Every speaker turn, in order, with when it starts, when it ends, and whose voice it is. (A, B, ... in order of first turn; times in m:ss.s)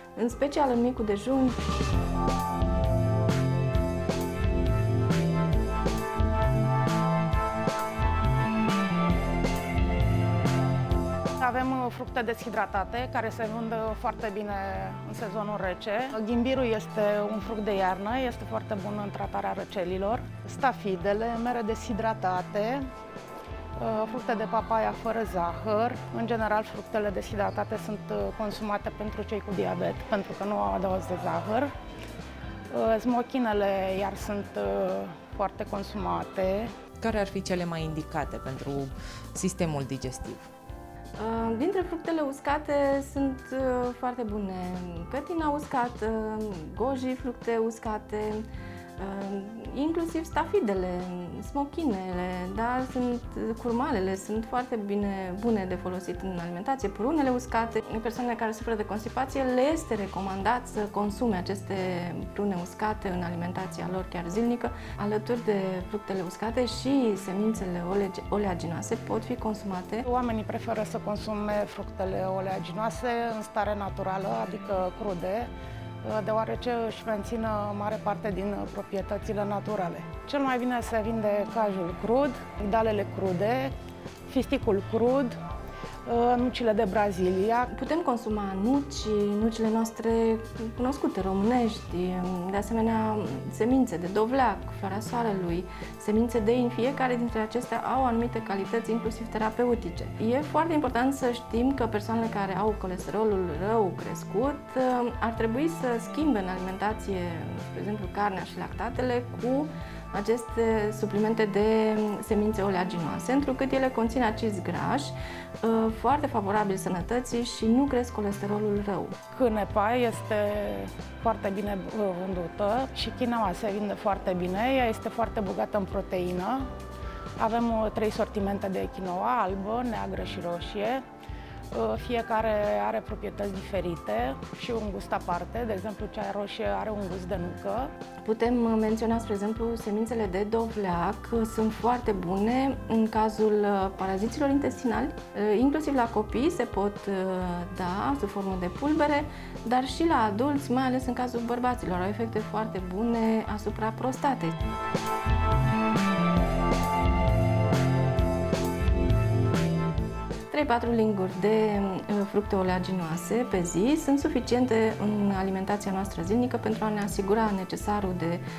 0:00.2-0:01.6 A
0:11.4-0:22.9 B
0:23.8-0:31.7 B
0:32.7-0:36.7 B
0:37.0-0:40.5 C
0:41.2-0:48.5 A
0:49.0-1:10.1 A
1:10.1-1:15.5 B
1:16.0-1:23.7 B
1:24.3-1:25.4 B
1:26.1-1:27.7 B
1:27.7-1:59.2 A
1:59.3-2:06.7 B
2:07.4-2:11.0 B
2:11.7-2:17.9 B
2:18.2-2:34.6 A
2:40.5-2:48.4 A